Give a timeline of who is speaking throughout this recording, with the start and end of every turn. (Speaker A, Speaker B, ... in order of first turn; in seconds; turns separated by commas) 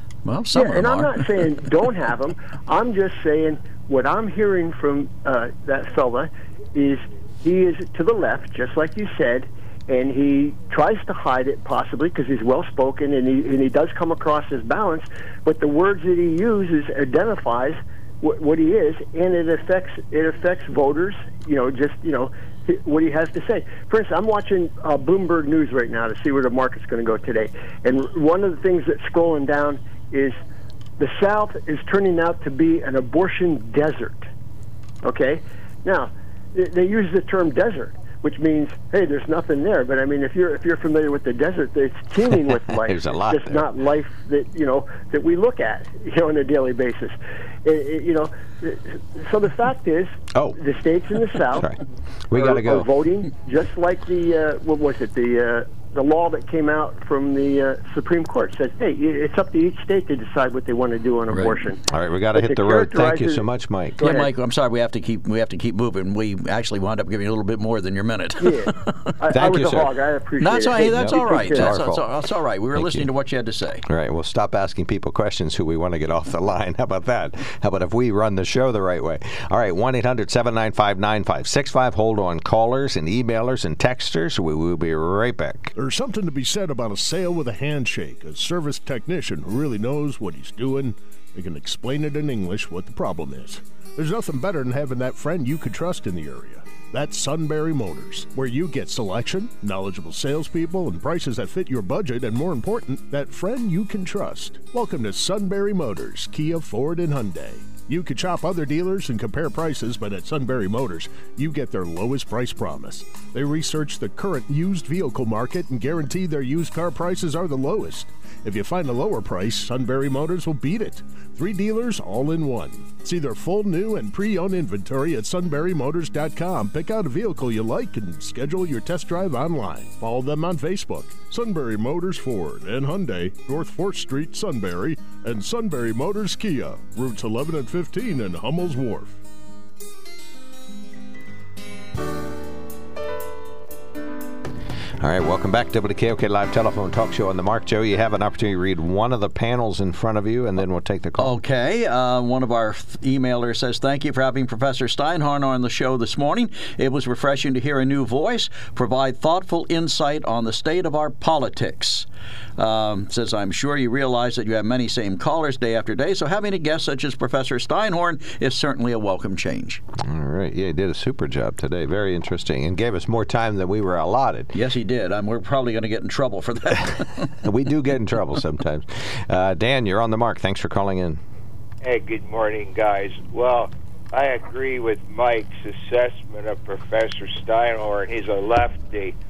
Speaker A: 0.2-1.2, Speaker B: 0.5-30.4, Speaker B: 31.0-34.3, Speaker B: 35.0-51.7, Speaker C: 42.8-43.7, Speaker C: 51.5-52.9, Speaker B: 52.3-61.8, Speaker C: 61.9-64.0, Speaker B: 62.3-63.5, Speaker B: 64.0-64.3, Speaker A: 64.0-68.9, Speaker B: 68.4-71.8, Speaker C: 69.3-69.9, Speaker A: 70.4-73.8, Speaker C: 70.8-72.0, Speaker C: 72.7-73.1, Speaker C: 73.9-85.7, Speaker D: 85.8-139.2, Speaker C: 145.0-151.3, Speaker A: 151.2-162.1, Speaker A: 162.6-169.8, Speaker C: 170.0-174.5, Speaker A: 174.5-177.3, Speaker C: 177.4-181.2, Speaker E: 181.8-189.2